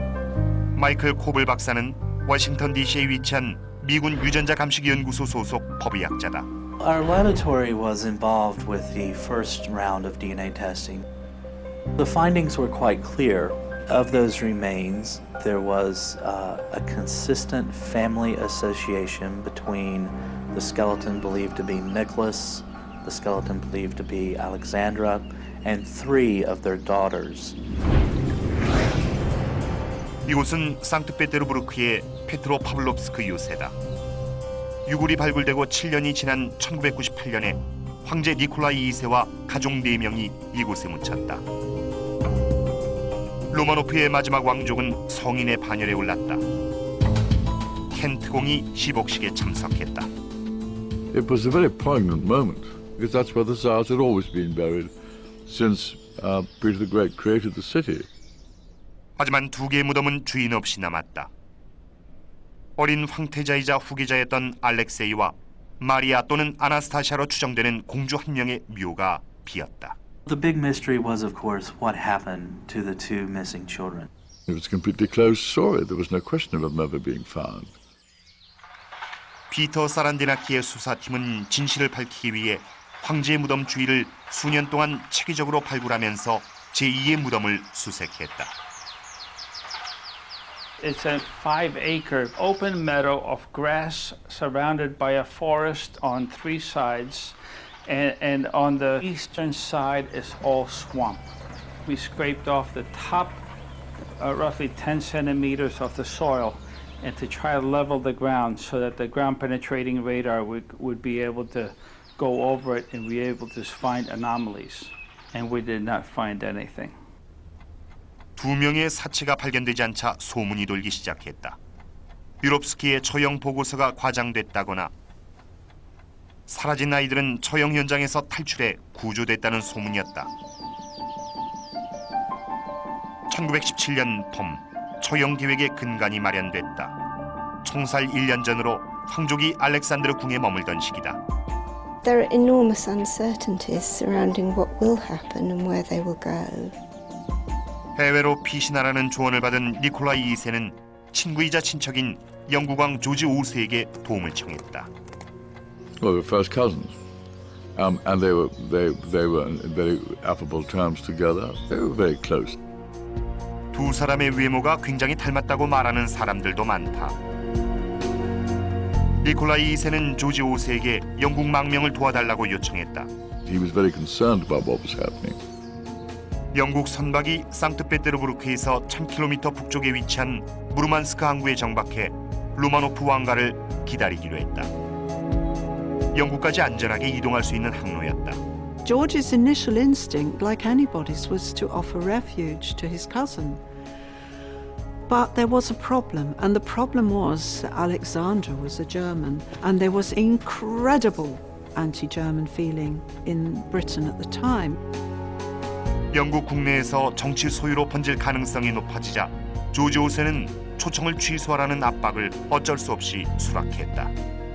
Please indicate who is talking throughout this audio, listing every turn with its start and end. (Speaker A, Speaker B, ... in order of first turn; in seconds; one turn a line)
Speaker A: 0.7-6.5
Speaker B: 6.8-11.0
Speaker B: 11.9-27.6
Speaker A: 30.2-33.7
Speaker A: 34.9-41.4
Speaker A: 43.5-46.4
Speaker A: 47.9-50.1
Speaker C: 51.1-54.9
Speaker C: 55.5-58.1
Speaker A: 59.2-61.3
Speaker A: 62.8-70.0
Speaker B: 70.2-74.1
Speaker C: 74.5-77.7
Speaker A: 79.5-88.5
Speaker D: 90.8-101.2
Speaker D: 101.8-103.4
Speaker D: 104.2-117.0
Speaker A: 118.4-121.6
Speaker A: 122.4-124.9
Speaker A: 126.5-130.3
Speaker A: 133.3-136.9
Speaker A: 137.6-141.2
Speaker E: 142.0-146.8
Speaker A: 148.0-154.9
Speaker C: 156.0-156.9
Speaker C: 157.7-162.6
Speaker A: 163.7-167.1
Speaker A: 169.2-173.1
Speaker C: 173.4-175.4
Speaker A: 176.5-184.7
Speaker A: 186.1-188.4
Speaker F: 188.8-193.6
Speaker F: 195.1-204.8
Speaker A: 206.1-214.1